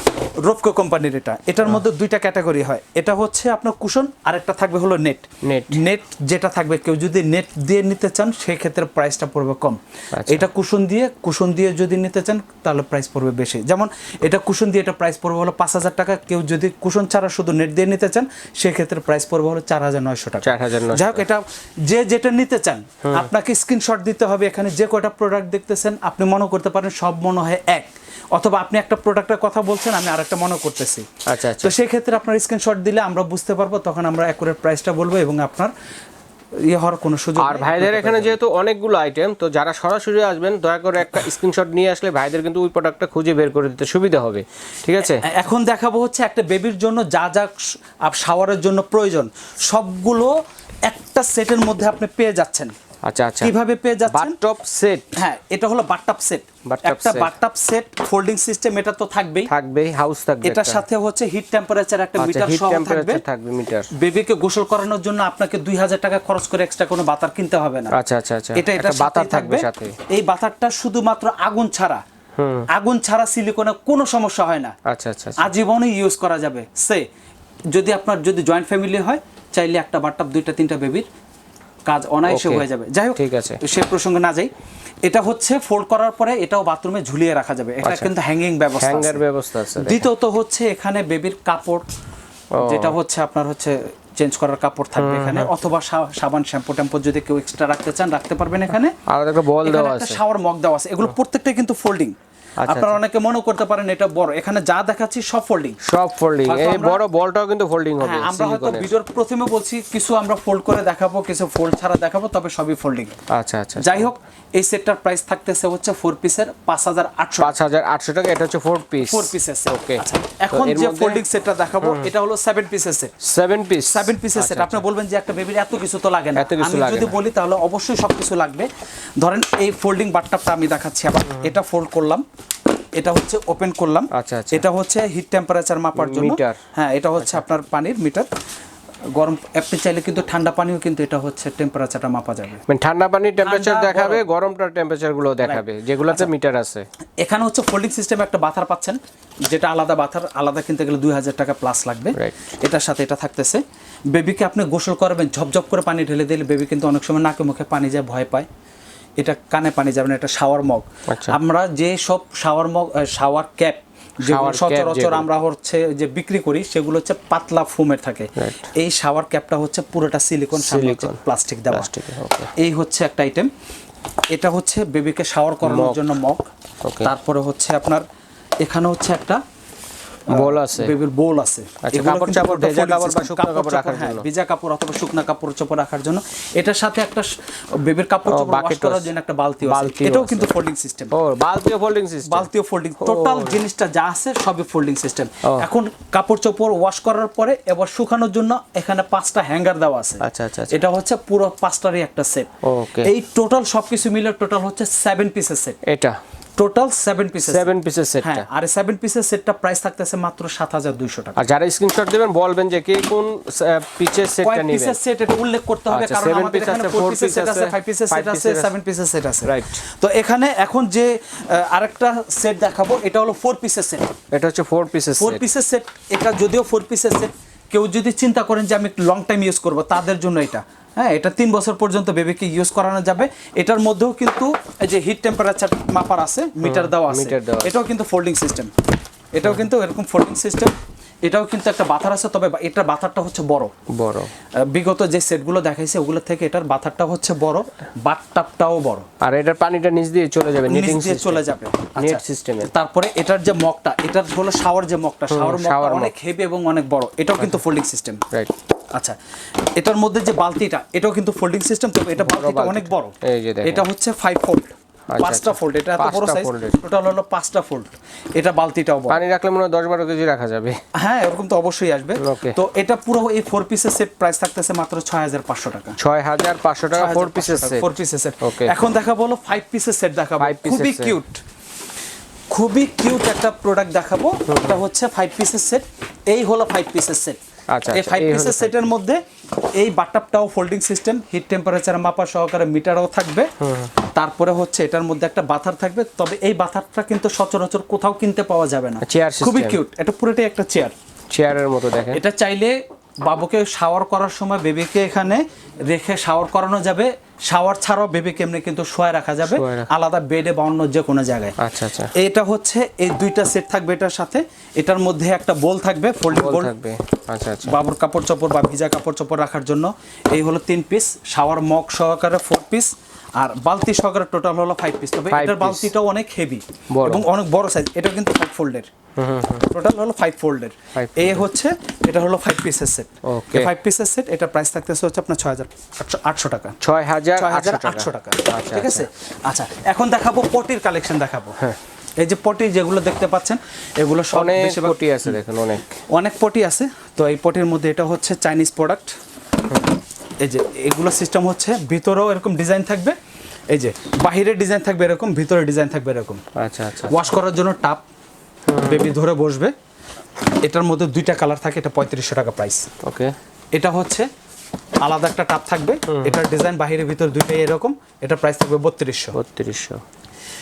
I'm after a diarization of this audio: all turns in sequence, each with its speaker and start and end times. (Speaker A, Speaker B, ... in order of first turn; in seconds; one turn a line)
Speaker A: 0.4-35.7
Speaker B: 5.4-5.8
Speaker B: 10.1-10.4
Speaker B: 20.4-21.2
Speaker B: 23.0-23.3
Speaker B: 31.2-31.7
Speaker A: 36.6-38.4
Speaker B: 37.4-45.2
Speaker A: 45.0-52.7
Speaker B: 53.0-53.5
Speaker A: 53.4-54.4
Speaker B: 54.1-55.1
Speaker A: 55.1-59.5
Speaker B: 56.6-57.3
Speaker B: 59.5-60.8
Speaker A: 60.4-63.2
Speaker B: 62.2-63.9
Speaker A: 63.9-67.9
Speaker B: 67.9-70.0
Speaker A: 68.5-72.0
Speaker B: 72.4-72.7
Speaker A: 72.7-74.7
Speaker B: 74.8-75.5
Speaker A: 75.4-77.0
Speaker A: 77.7-81.0
Speaker A: 81.8-84.5
Speaker B: 82.3-83.6
Speaker A: 85.0-89.2
Speaker B: 87.8-88.1
Speaker B: 88.8-90.1
Speaker A: 89.8-91.8
Speaker B: 92.5-92.9
Speaker A: 92.6-99.0
Speaker B: 95.0-95.5
Speaker B: 99.1-100.2
Speaker A: 99.6-105.8
Speaker B: 102.6-103.0
Speaker B: 105.8-108.9
Speaker A: 106.4-107.0
Speaker A: 108.0-113.2
Speaker B: 113.3-114.1
Speaker A: 113.8-117.6
Speaker B: 117.4-121.2
Speaker A: 119.0-123.1
Speaker B: 123.2-124.8
Speaker A: 123.8-132.2
Speaker B: 126.3-127.2
Speaker A: 132.9-138.3
Speaker B: 134.1-134.7
Speaker B: 135.9-136.6
Speaker A: 139.1-142.6
Speaker B: 142.7-146.8
Speaker A: 143.4-144.2
Speaker A: 145.4-146.3
Speaker A: 147.2-158.5
Speaker A: 159.2-171.9
Speaker B: 161.1-161.4
Speaker B: 164.2-165.3
Speaker B: 168.4-168.7
Speaker B: 170.6-171.2
Speaker B: 171.7-172.5
Speaker A: 172.6-173.5
Speaker A: 174.3-176.4
Speaker B: 175.6-176.1
Speaker B: 176.8-177.1
Speaker A: 177.0-178.0
Speaker A: 178.6-179.4
Speaker B: 180.3-180.9
Speaker A: 180.3-191.1
Speaker B: 181.8-184.2
Speaker B: 188.3-189.1
Speaker B: 189.6-190.5
Speaker B: 191.1-192.5
Speaker A: 192.2-205.8
Speaker B: 193.0-193.6
Speaker B: 195.4-195.7
Speaker B: 200.2-200.8
Speaker B: 202.6-203.1
Speaker B: 205.8-206.2
Speaker A: 206.6-211.4
Speaker B: 207.4-208.4
Speaker B: 211.4-215.0
Speaker A: 214.4-224.1
Speaker B: 215.9-218.7
Speaker B: 219.4-219.8
Speaker B: 224.3-225.4
Speaker A: 225.2-238.7
Speaker B: 236.6-237.7
Speaker A: 239.3-243.7
Speaker B: 243.9-244.3
Speaker A: 244.6-249.1
Speaker B: 249.2-251.4
Speaker A: 250.7-258.2
Speaker B: 251.9-252.7
Speaker B: 255.3-256.1
Speaker A: 259.8-269.2
Speaker B: 262.2-263.8
Speaker B: 265.1-266.8
Speaker B: 269.1-270.8
Speaker A: 270.9-275.9
Speaker B: 272.2-272.6
Speaker B: 276.0-278.7
Speaker A: 276.9-281.4
Speaker B: 280.4-281.2
Speaker A: 282.5-287.4
Speaker B: 284.5-284.8
Speaker B: 287.7-288.9
Speaker A: 287.9-289.2
Speaker A: 289.8-293.5
Speaker B: 293.6-293.9
Speaker A: 294.0-300.9
Speaker B: 299.0-299.8
Speaker B: 301.3-302.2
Speaker A: 302.1-311.5
Speaker B: 309.4-309.9
Speaker B: 311.6-312.1
Speaker A: 312.1-316.7
Speaker B: 316.3-317.8
Speaker A: 317.7-328.9
Speaker B: 325.3-325.9
Speaker B: 326.9-327.2
Speaker B: 329.1-329.7
Speaker A: 329.6-336.8
Speaker B: 330.9-331.5
Speaker B: 333.2-333.7
Speaker B: 336.8-339.1
Speaker A: 337.4-341.6
Speaker A: 342.2-345.4
Speaker B: 344.3-346.0
Speaker A: 346.1-349.2
Speaker A: 350.4-353.1
Speaker A: 353.7-356.4
Speaker B: 356.6-357.3
Speaker A: 357.1-358.0
Speaker B: 358.7-359.1
Speaker A: 358.8-359.7
Speaker A: 360.6-362.9
Speaker B: 363.0-363.3
Speaker A: 363.7-364.3
Speaker A: 365.0-369.3
Speaker B: 366.1-366.4
Speaker B: 369.3-370.0